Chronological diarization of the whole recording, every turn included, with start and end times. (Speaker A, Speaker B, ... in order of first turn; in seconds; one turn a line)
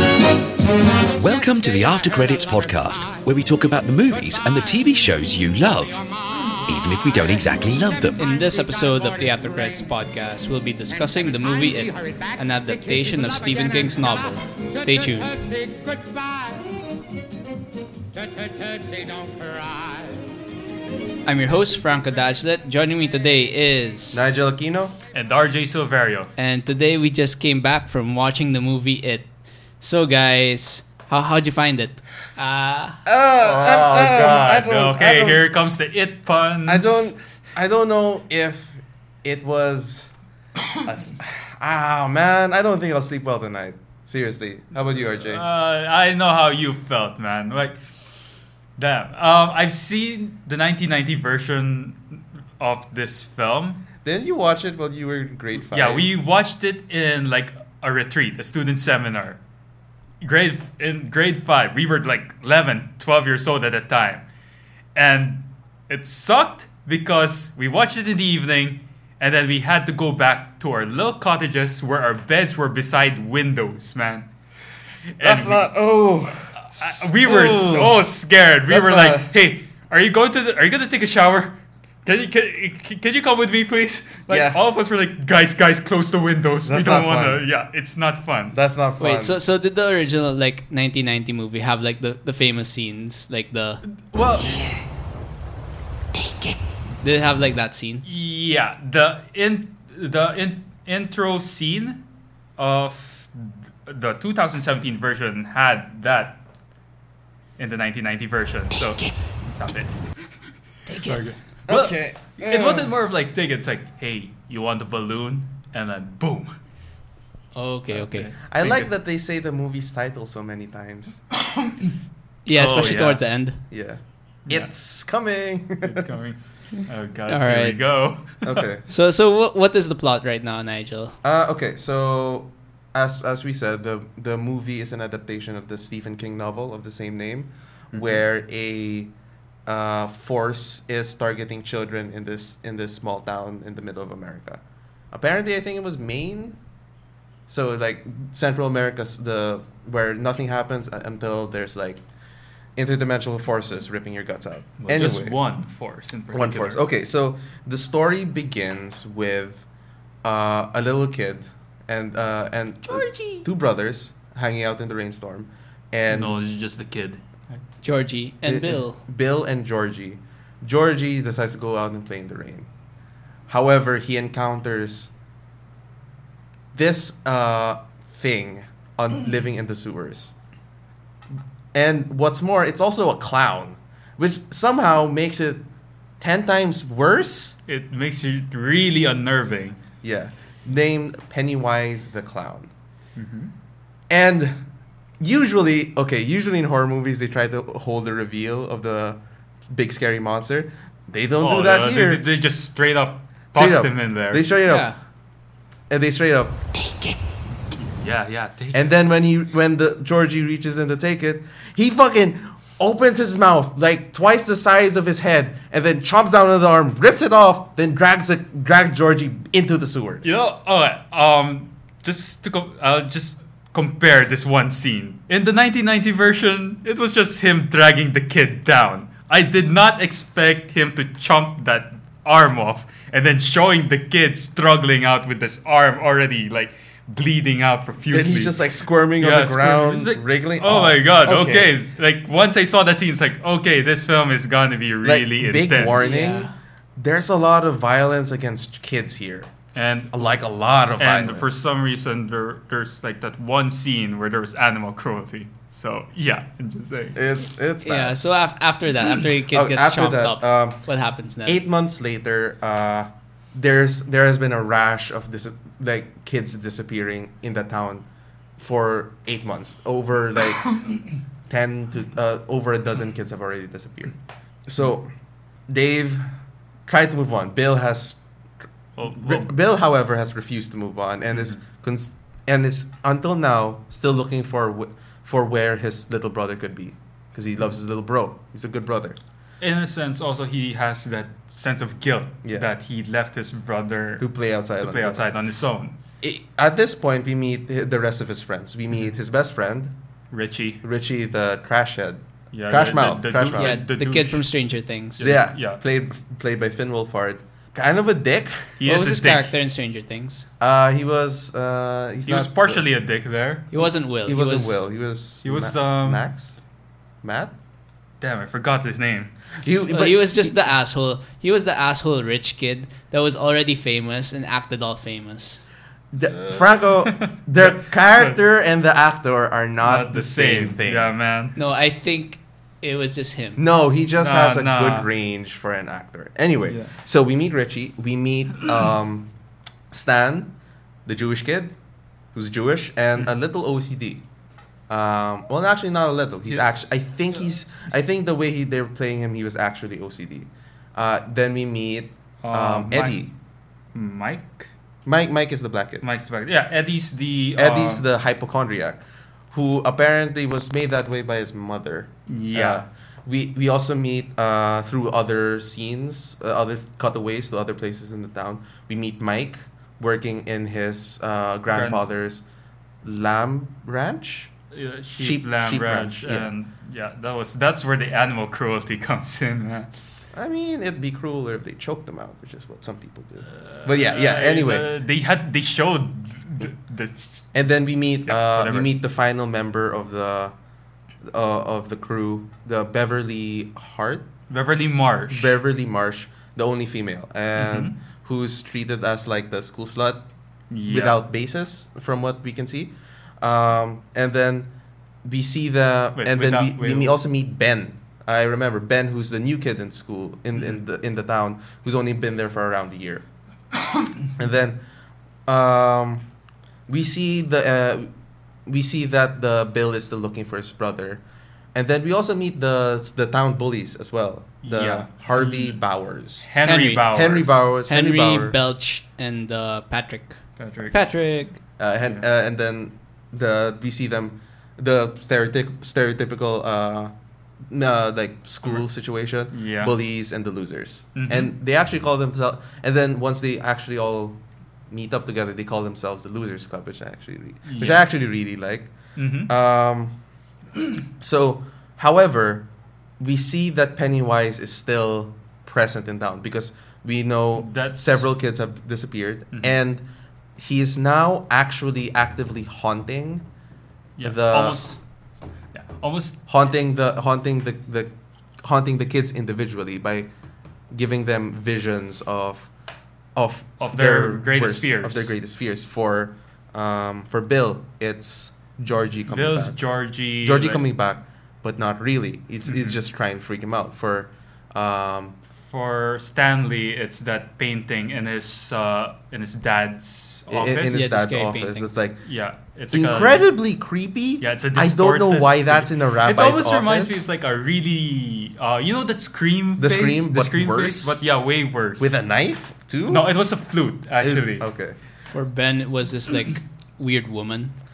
Speaker A: 1.1-6.1
Speaker A: 6.7-8.2
Speaker B: 8.2-15.4
Speaker B: 21.3-24.2
Speaker C: 24.1-24.9
Speaker D: 25.1-26.3
Speaker B: 26.4-29.3
Speaker B: 29.8-33.0
Speaker C: 33.1-35.4
Speaker D: 33.4-37.1
Speaker C: 36.7-40.1
Speaker C: 40.8-45.4
Speaker D: 45.2-47.8
Speaker D: 48.8-53.8
Speaker C: 54.0-56.1
Speaker D: 55.7-59.4
Speaker D: 60.2-64.3
Speaker D: 65.0-74.3
Speaker D: 75.1-75.7
Speaker C: 75.2-76.5
Speaker D: 76.8-88.6
Speaker C: 77.2-78.0
Speaker C: 78.7-79.3
Speaker C: 84.3-84.6
Speaker C: 86.7-87.4
Speaker C: 88.5-89.4
Speaker B: 89.0-93.8
Speaker D: 93.9-94.7
Speaker B: 97.0-98.0
Speaker D: 98.0-102.0
Speaker D: 102.6-106.4
Speaker D: 107.6-110.0
Speaker B: 110.9-111.3
Speaker D: 111.0-116.6
Speaker C: 111.7-112.9
Speaker B: 117.5-118.3
Speaker D: 117.9-118.9
Speaker C: 118.4-121.2
Speaker D: 121.5-121.9
Speaker B: 122.5-123.6
Speaker D: 122.5-123.2
Speaker C: 123.7-126.1
Speaker D: 125.8-128.4
Speaker B: 127.3-127.8
Speaker C: 128.4-128.9
Speaker B: 128.9-131.2
Speaker C: 131.2-139.1
Speaker D: 137.9-138.2
Speaker C: 139.7-146.6
Speaker C: 147.5-152.0
Speaker C: 152.8-155.4
Speaker D: 154.8-156.8
Speaker C: 156.3-159.7
Speaker C: 160.2-166.3
Speaker D: 162.8-163.5
Speaker D: 166.1-167.6
Speaker B: 167.8-169.0
Speaker C: 168.4-172.7
Speaker C: 173.5-175.1
Speaker C: 176.7-180.3
Speaker C: 181.7-185.6
Speaker C: 186.2-187.6
Speaker D: 187.7-189.8
Speaker C: 190.0-192.7
Speaker D: 193.2-193.5
Speaker C: 194.1-194.6
Speaker C: 195.2-199.2
Speaker C: 199.7-202.2
Speaker D: 201.4-204.5
Speaker C: 203.5-204.9
Speaker B: 204.7-205.0
Speaker C: 205.9-206.6
Speaker D: 207.9-208.9
Speaker C: 208.7-220.3
Speaker D: 220.2-238.6
Speaker C: 238.1-241.7
Speaker D: 239.2-246.1
Speaker C: 245.0-249.5
Speaker B: 246.0-246.5
Speaker D: 249.8-250.2
Speaker C: 250.1-251.5
Speaker D: 251.0-257.2
Speaker C: 257.1-258.2
Speaker B: 257.8-261.6
Speaker C: 259.5-260.8
Speaker C: 261.4-268.1
Speaker C: 268.6-270.8
Speaker C: 271.5-275.1
Speaker C: 275.7-276.2
Speaker C: 276.9-278.2
Speaker D: 279.0-279.5
Speaker C: 279.0-289.2
Speaker D: 289.6-294.3
Speaker C: 294.2-295.3
Speaker D: 294.8-296.0
Speaker C: 296.2-299.9
Speaker D: 300.3-300.8
Speaker C: 300.8-303.8
Speaker D: 302.5-304.5
Speaker B: 303.5-305.3
Speaker D: 305.2-305.8
Speaker C: 305.2-308.8
Speaker D: 308.8-309.5
Speaker B: 308.9-310.4
Speaker C: 310.6-312.8
Speaker D: 312.3-313.7
Speaker B: 313.7-314.8
Speaker C: 314.3-316.6
Speaker D: 315.4-316.3
Speaker C: 317.2-317.5
Speaker D: 318.2-319.3
Speaker C: 319.6-320.5
Speaker B: 319.9-325.6
Speaker C: 326.1-331.1
Speaker D: 326.3-328.4
Speaker D: 329.8-331.6
Speaker B: 331.6-333.6
Speaker C: 333.6-339.3
Speaker D: 334.2-335.1
Speaker D: 336.7-336.9
Speaker C: 339.9-340.5
Speaker C: 341.1-341.7
Speaker C: 342.3-344.2
Speaker C: 344.9-353.3
Speaker D: 352.4-353.2
Speaker D: 353.9-354.7
Speaker C: 355.1-356.1
Speaker D: 356.0-358.1
Speaker C: 357.6-372.4
Speaker D: 362.3-362.8
Speaker D: 371.7-372.0
Speaker C: 373.0-374.5
Speaker D: 374.7-379.9
Speaker C: 375.2-376.5
Speaker C: 380.3-384.9
Speaker D: 383.5-387.5
Speaker C: 387.5-390.6
Speaker D: 388.3-388.9
Speaker C: 391.2-394.3
Speaker D: 394.5-395.6
Speaker C: 395.3-400.2
Speaker D: 397.6-397.9
Speaker D: 400.7-401.2
Speaker C: 400.9-404.7
Speaker C: 405.2-413.2
Speaker D: 406.2-407.1
Speaker C: 414.4-414.8
Speaker C: 415.5-416.3
Speaker C: 416.9-418.1
Speaker C: 418.7-421.2
Speaker C: 421.7-426.5
Speaker D: 424.6-425.8
Speaker D: 426.4-427.5
Speaker B: 426.7-427.0
Speaker C: 427.1-428.6
Speaker B: 427.9-430.4
Speaker D: 430.6-430.9
Speaker B: 430.9-431.6
Speaker C: 431.8-437.1
Speaker C: 437.7-448.9
Speaker D: 439.5-439.9
Speaker D: 441.1-441.5
Speaker D: 447.7-448.0
Speaker D: 449.2-449.5
Speaker C: 449.5-450.2
Speaker C: 451.2-452.7
Speaker C: 453.2-460.0
Speaker D: 457.6-458.3
Speaker C: 460.6-463.5
Speaker D: 464.2-465.0
Speaker C: 464.2-464.8
Speaker D: 465.7-466.4
Speaker C: 466.5-468.1
Speaker C: 468.6-470.3
Speaker C: 470.9-472.7
Speaker C: 473.4-479.8
Speaker D: 473.8-475.3
Speaker D: 479.3-480.8
Speaker C: 480.4-485.4
Speaker D: 482.7-483.0
Speaker D: 485.7-490.9
Speaker C: 490.5-492.2
Speaker B: 490.9-491.9
Speaker D: 492.2-493.5
Speaker C: 492.9-497.2
Speaker D: 494.4-502.2
Speaker C: 499.8-501.2
Speaker C: 502.0-503.3
Speaker D: 503.1-504.7
Speaker C: 504.2-505.0
Speaker B: 505.3-507.7